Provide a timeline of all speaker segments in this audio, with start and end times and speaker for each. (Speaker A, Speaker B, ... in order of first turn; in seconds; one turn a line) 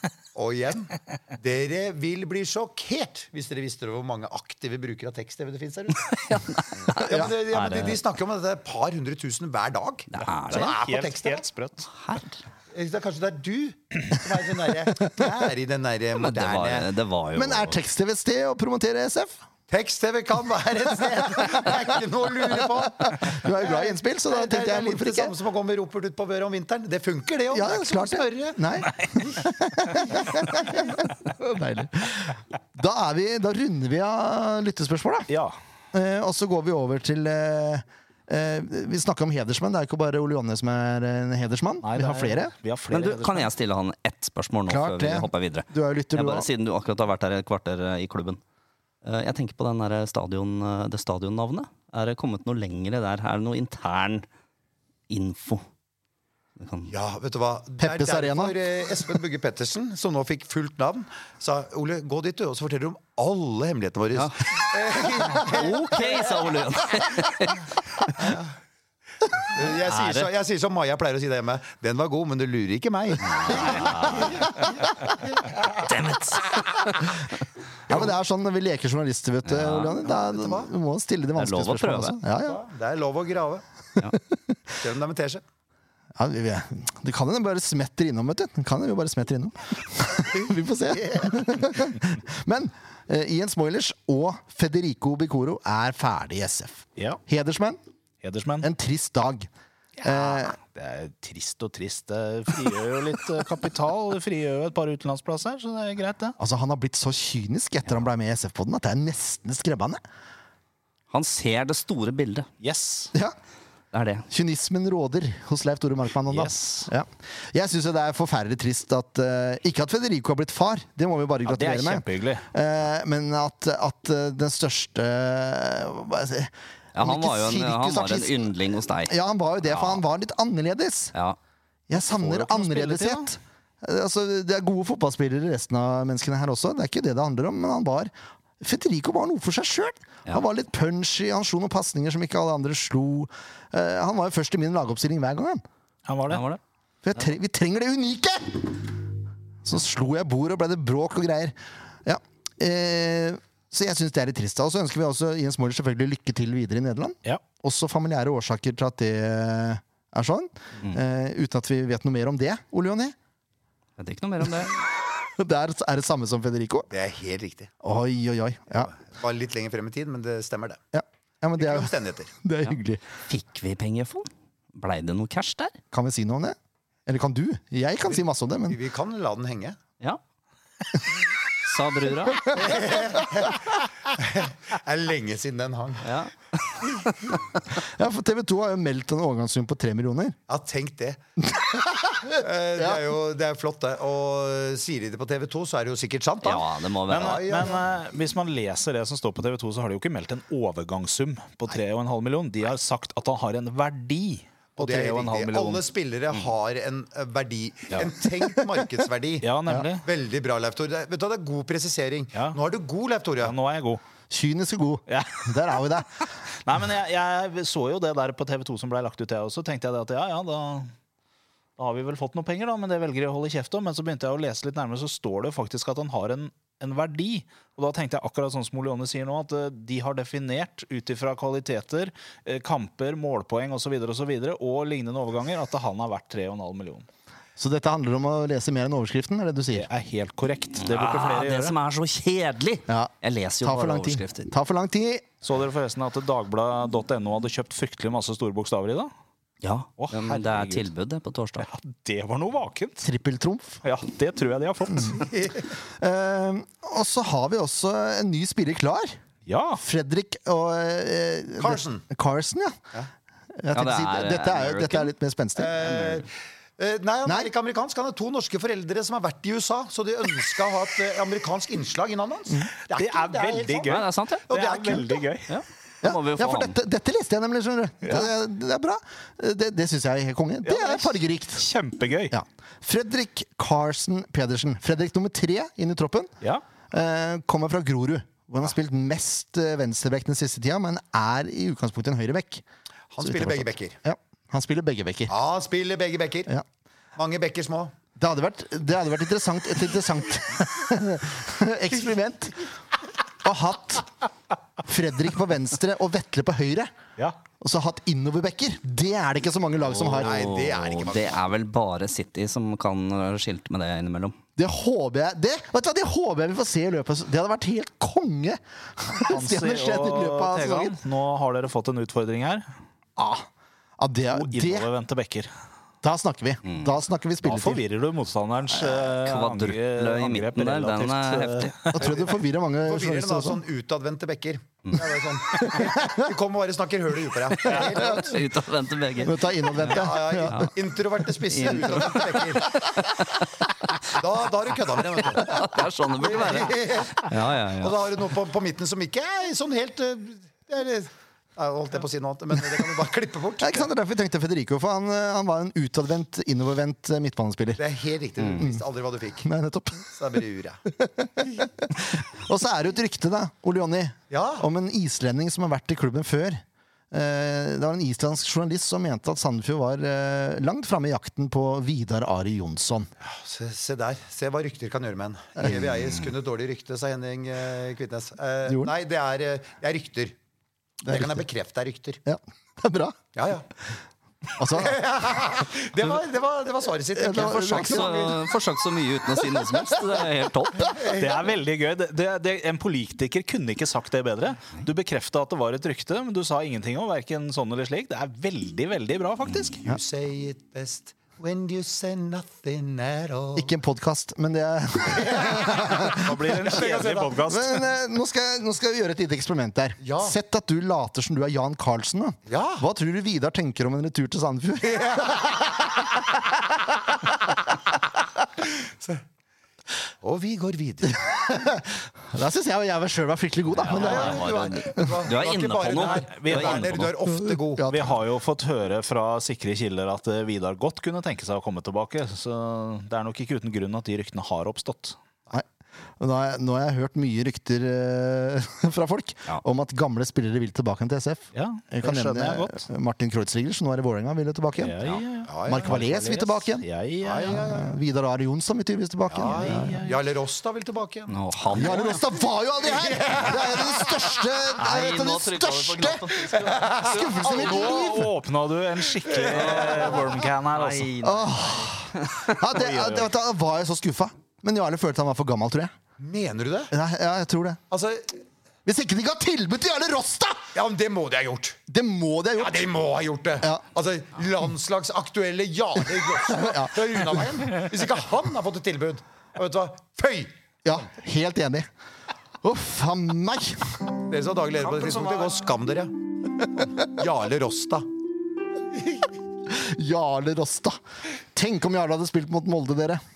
Speaker A: 0.3-11.4
Speaker B: 6.1-8.0
Speaker B: 10.1-10.8
Speaker C: 10.5-11.9
Speaker B: 11.9-12.4
Speaker A: 12.7-16.9
Speaker B: 16.1-17.8
Speaker D: 17.4-19.4
Speaker A: 19.7-28.6
Speaker D: 23.0-25.3
Speaker D: 27.5-35.3
Speaker C: 35.3-35.5
Speaker D: 35.9-42.5
Speaker C: 41.8-43.5
Speaker B: 42.9-48.4
Speaker D: 44.7-46.5
Speaker B: 49.0-54.2
Speaker B: 55.1-55.6
Speaker B: 56.6-56.9
Speaker A: 56.9-67.1
Speaker D: 57.8-58.6
Speaker B: 64.1-64.6
Speaker B: 65.3-67.7
Speaker A: 68.2-68.5
Speaker A: 69.5-74.7
Speaker B: 69.6-70.3
Speaker B: 73.2-74.5
Speaker B: 75.8-77.0
Speaker D: 77.9-82.6
Speaker B: 79.5-80.0
Speaker A: 80.0-80.7
Speaker B: 81.3-82.2
Speaker A: 82.4-83.6
Speaker A: 84.8-85.4
Speaker D: 86.2-97.8
Speaker C: 98.2-98.7
Speaker D: 98.6-99.5
Speaker C: 100.0-106.3
Speaker D: 100.0-100.6
Speaker D: 106.4-110.0
Speaker B: 111.1-112.5
Speaker C: 112.6-113.1
Speaker B: 113.9-114.3
Speaker D: 114.3-128.5
Speaker C: 116.3-116.9
Speaker C: 121.5-122.5
Speaker B: 126.9-129.1
Speaker D: 129.1-131.1
Speaker B: 129.6-130.0
Speaker D: 131.9-145.6
Speaker C: 131.9-133.3
Speaker C: 146.1-146.4
Speaker B: 146.3-146.6
Speaker D: 147.0-148.9
Speaker D: 149.6-163.1
Speaker B: 164.0-164.8
Speaker D: 165.3-166.9
Speaker A: 166.9-167.7
Speaker D: 167.8-168.9
Speaker A: 168.8-170.8
Speaker D: 170.9-171.9
Speaker A: 171.6-172.3
Speaker D: 172.4-173.0
Speaker B: 173.3-175.8
Speaker D: 175.9-178.8
Speaker A: 178.7-179.8
Speaker B: 181.6-182.8
Speaker A: 182.5-183.6
Speaker A: 184.1-186.1
Speaker B: 186.0-187.3
Speaker D: 187.8-190.3
Speaker A: 190.5-191.2
Speaker D: 191.5-193.0
Speaker A: 192.3-197.8
Speaker B: 196.4-197.7
Speaker C: 197.1-205.8
Speaker A: 204.8-213.6
Speaker C: 209.4-210.1
Speaker C: 213.4-214.0
Speaker D: 214.3-216.2
Speaker C: 215.1-215.8
Speaker C: 216.6-220.9
Speaker C: 221.8-237.1
Speaker D: 237.6-239.9
Speaker C: 239.7-241.8
Speaker B: 240.8-244.5
Speaker D: 242.9-245.3
Speaker C: 245.4-249.1
Speaker B: 249.6-251.7
Speaker C: 250.0-250.9
Speaker C: 251.6-253.0
Speaker D: 253.0-253.8
Speaker C: 253.8-255.3
Speaker A: 255.2-255.7
Speaker D: 256.0-259.2
Speaker C: 259.4-259.8
Speaker D: 259.8-262.8
Speaker A: 261.6-262.1
Speaker D: 263.6-265.7
Speaker B: 263.7-265.1
Speaker A: 265.6-275.3
Speaker B: 265.8-266.2
Speaker C: 272.9-275.6
Speaker B: 273.9-274.4
Speaker B: 275.5-276.7
Speaker D: 276.0-281.7
Speaker C: 278.0-278.3
Speaker C: 280.6-282.3
Speaker D: 282.3-286.3
Speaker D: 286.9-292.6
Speaker A: 293.1-294.0
Speaker D: 293.2-295.3
Speaker A: 295.3-296.5
Speaker A: 297.1-297.9
Speaker D: 298.2-302.6
Speaker D: 303.4-304.1
Speaker D: 304.8-306.9
Speaker D: 307.6-310.5
Speaker B: 309.9-314.4
Speaker A: 310.1-311.4
Speaker D: 314.6-320.9
Speaker C: 319.3-322.6
Speaker D: 323.2-323.5
Speaker D: 324.0-324.9
Speaker C: 324.3-325.5
Speaker D: 326.0-327.8
Speaker C: 327.4-332.1
Speaker B: 329.1-331.8
Speaker D: 331.9-333.6
Speaker A: 332.0-338.4
Speaker D: 335.5-336.3
Speaker B: 337.6-339.8
Speaker D: 337.7-338.3
Speaker D: 339.2-340.7
Speaker A: 339.8-343.2
Speaker B: 341.5-342.5
Speaker A: 344.1-353.9
Speaker B: 345.2-348.1
Speaker D: 353.6-357.8
Speaker A: 357.8-359.5
Speaker D: 358.5-358.8
Speaker D: 359.4-360.1
Speaker A: 360.1-360.8
Speaker D: 360.9-373.1
Speaker A: 364.3-364.7
Speaker A: 373.2-380.3
Speaker D: 378.7-378.9
Speaker D: 381.0-381.4
Speaker A: 381.1-382.2
Speaker D: 382.2-383.2
Speaker A: 383.3-383.7
Speaker D: 384.6-385.0
Speaker A: 384.7-388.4
Speaker D: 387.1-388.2
Speaker B: 387.5-391.1
Speaker C: 391.1-399.8
Speaker A: 399.8-403.7
Speaker D: 403.6-406.3
Speaker A: 405.1-407.4
Speaker C: 405.9-407.9
Speaker D: 407.5-415.0
Speaker A: 410.0-410.3
Speaker A: 412.5-412.8
Speaker A: 414.9-415.7
Speaker A: 420.2-421.2
Speaker D: 421.2-424.4
Speaker B: 423.8-427.1
Speaker C: 423.9-424.2
Speaker A: 423.9-427.9
Speaker C: 426.0-427.1
Speaker D: 427.3-428.1
Speaker C: 427.9-435.2
Speaker D: 436.2-444.9
Speaker C: 441.5-442.9
Speaker C: 444.8-447.7
Speaker A: 445.5-446.0
Speaker D: 445.6-446.8
Speaker A: 447.2-447.9
Speaker D: 447.4-450.0
Speaker A: 449.3-452.2
Speaker C: 449.4-450.2
Speaker B: 451.3-452.2
Speaker D: 451.7-458.3
Speaker A: 452.8-454.2
Speaker B: 454.8-457.6
Speaker A: 456.5-457.4
Speaker C: 457.2-461.1
Speaker A: 459.3-460.3
Speaker B: 459.4-462.5
Speaker D: 461.2-465.9
Speaker C: 462.6-463.3
Speaker A: 466.2-466.9
Speaker D: 466.9-467.8
Speaker A: 467.9-468.4
Speaker D: 468.9-470.7
Speaker A: 470.7-471.8
Speaker D: 471.9-472.9
Speaker A: 472.6-480.5
Speaker D: 476.4-477.5
Speaker D: 480.8-481.9
Speaker D: 482.6-484.0
Speaker A: 484.3-486.1
Speaker A: 486.8-488.1
Speaker D: 489.7-491.0
Speaker D: 491.5-493.2